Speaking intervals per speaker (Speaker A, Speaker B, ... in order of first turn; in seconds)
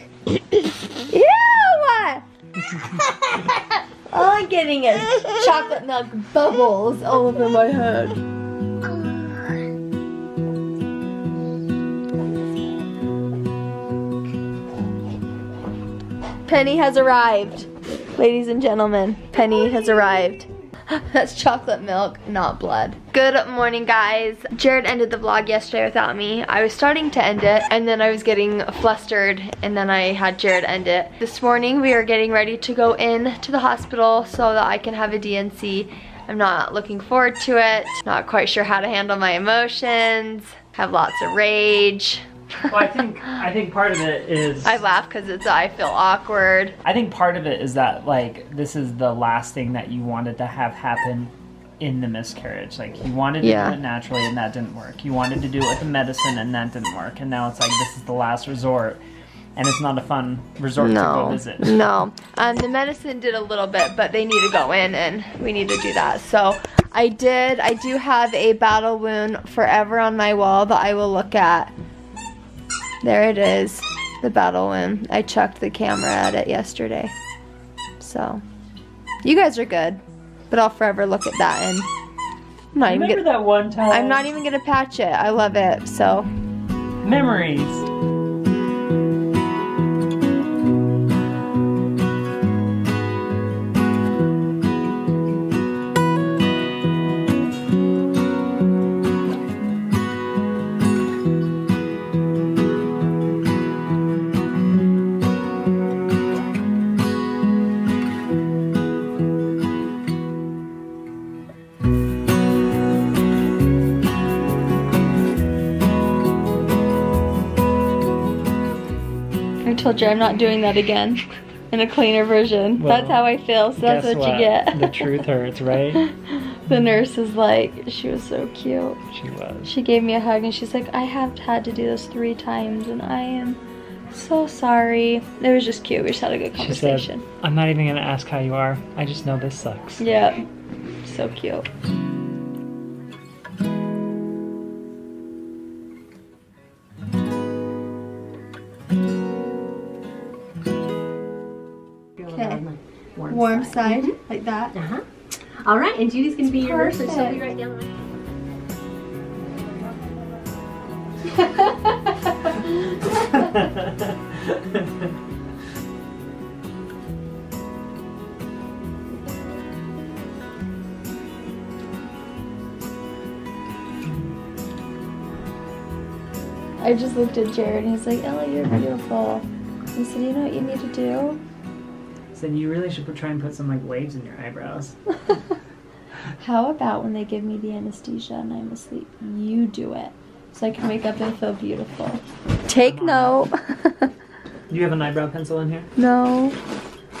Speaker A: 1.0-2.2, 3.5-8.2, 16.4-42.3, 44.6-46.7, 53.4-53.8, 60.8-71.7, 73.0-77.1, 78.0-78.4, 79.2-81.9, 82.7-83.2, 83.9-86.2, 119.6-125.2, 125.9-129.0, 129.6-133.6, 134.1-137.2, 140.0-140.4, 141.0-141.7, 152.2-152.6, 153.3-154.8, 156.5-157.4, 176.8-181.4, 186.4-194.1, 195.9-196.6
Speaker B: 2.7-3.0, 42.7-44.8, 46.8-59.0, 59.5-61.8, 82.8-84.3, 87.0-87.8, 122.8-123.2, 123.8-126.0, 129.1-129.7, 136.5-140.0, 163.3-164.9, 182.3-184.9, 192.8-193.4, 194.7-195.9
Speaker C: 152.2-154.2, 154.7-157.9